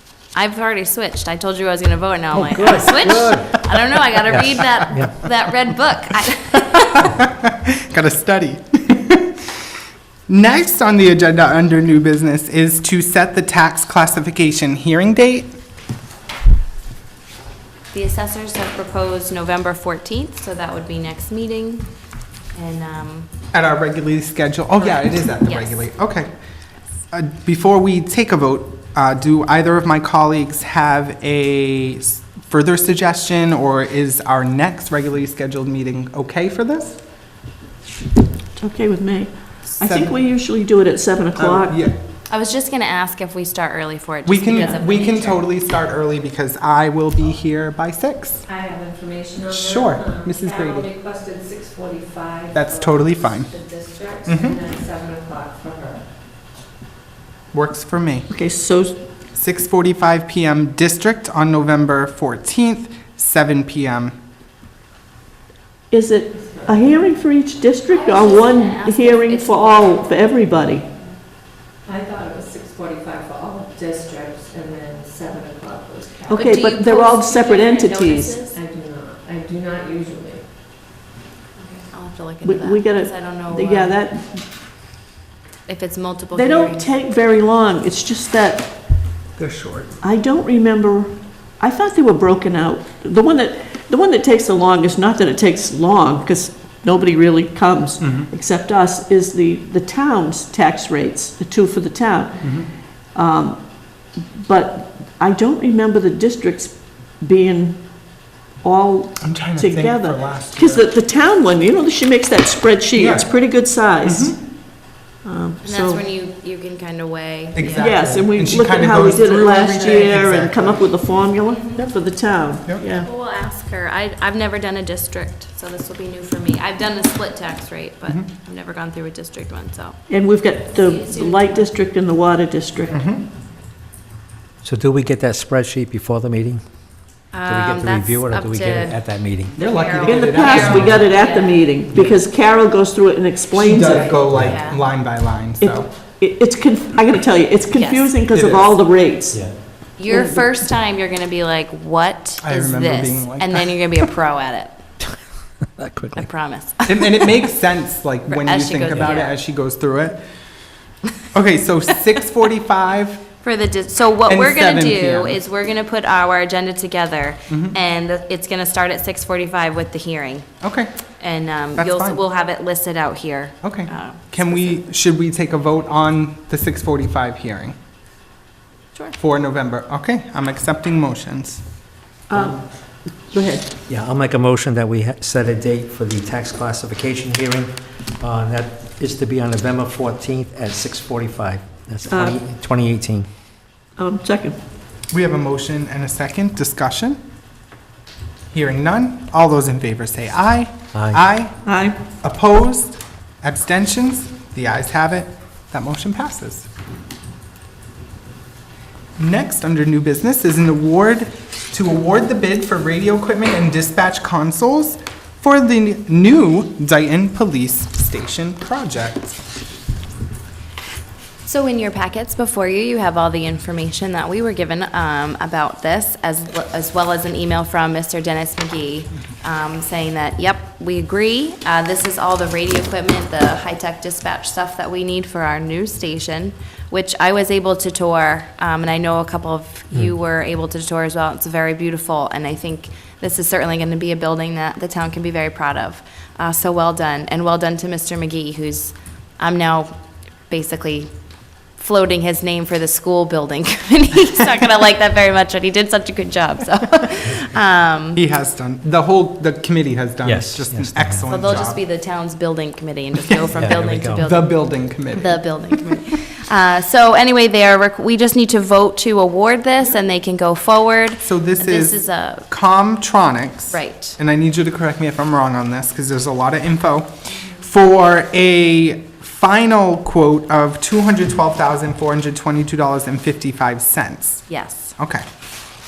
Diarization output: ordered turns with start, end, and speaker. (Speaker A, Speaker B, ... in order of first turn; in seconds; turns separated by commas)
Speaker A: 0.3-7.0, Speaker B: 2.3-3.6, Speaker C: 2.6-3.2, Speaker B: 4.2-5.3, Speaker C: 6.9-7.2, Speaker C: 7.9-9.3, Speaker C: 10.3-15.5, Speaker A: 17.9-21.9, Speaker A: 22.5-23.3, Speaker C: 23.5-26.3, Speaker A: 24.8-25.9, Speaker C: 27.1-37.0, Speaker D: 38.5-41.8, Speaker C: 39.8-40.2, Speaker C: 41.4-42.0, Speaker A: 42.3-45.5, Speaker C: 44.2-48.4, Speaker E: 48.5-56.1, Speaker C: 49.5-50.9, Speaker C: 52.5-53.6, Speaker C: 54.2-54.6, Speaker C: 57.5-58.3, Speaker D: 58.3-59.0, Speaker C: 59.3-64.1, Speaker D: 65.9-70.8, Speaker E: 66.3-66.8, Speaker A: 67.9-70.3, Speaker E: 71.8-76.6, Speaker D: 76.3-78.4, Speaker A: 76.3-78.6, Speaker E: 78.5-80.5, Speaker A: 81.6-84.0, Speaker D: 82.4-84.4, Speaker A: 85.7-87.0, Speaker D: 86.3-88.7, Speaker C: 89.4-89.9, Speaker D: 90.0-102.5, Speaker C: 98.0-98.3, Speaker C: 102.4-102.7, Speaker D: 103.1-103.6, Speaker D: 104.3-107.8, Speaker D: 108.6-114.4, Speaker C: 109.2-110.9, Speaker C: 112.9-113.3, Speaker C: 114.0-114.4, Speaker D: 115.2-116.0, Speaker A: 115.6-118.2, Speaker C: 117.5-120.9, Speaker D: 117.8-123.1, Speaker A: 119.0-120.1, Speaker A: 121.4-121.9, Speaker A: 123.0-130.0, Speaker D: 130.1-133.0, Speaker A: 130.7-131.7, Speaker C: 132.9-133.2, Speaker B: 134.6-136.6, Speaker A: 137.3-141.7, Speaker B: 137.4-139.6, Speaker C: 139.6-141.0, Speaker D: 139.8-144.2, Speaker B: 140.6-140.9, Speaker C: 143.5-145.9, Speaker B: 144.3-144.6, Speaker A: 144.4-144.9, Speaker D: 145.6-149.5, Speaker A: 147.7-148.1, Speaker C: 148.3-148.7, Speaker A: 150.0-154.8, Speaker D: 150.1-150.4, Speaker C: 152.4-153.7, Speaker B: 155.8-156.3, Speaker A: 156.1-157.5, Speaker C: 156.9-160.2, Speaker A: 158.3-159.4, Speaker C: 161.3-163.2, Speaker A: 163.4-170.5, Speaker C: 164.2-165.4, Speaker C: 167.5-167.8, Speaker C: 170.6-170.9, Speaker A: 171.2-174.8, Speaker C: 171.7-172.2, Speaker C: 173.6-177.7, Speaker C: 179.2-181.6, Speaker D: 182.3-183.7, Speaker B: 183.9-193.3, Speaker D: 192.1-192.4, Speaker D: 194.0-194.6, Speaker C: 195.1-197.2, Speaker C: 198.5-201.6, Speaker B: 200.9-201.2, Speaker D: 201.6-202.0, Speaker C: 202.2-206.7, Speaker C: 209.2-219.4, Speaker A: 221.4-249.9, Speaker A: 250.5-251.1, Speaker A: 251.7-258.2, Speaker C: 258.1-261.8, Speaker B: 260.2-261.5, Speaker A: 261.3-272.5, Speaker C: 263.2-266.0, Speaker B: 263.5-264.3, Speaker C: 271.2-284.5, Speaker A: 273.7-274.2, Speaker A: 284.5-284.9, Speaker C: 285.0-285.2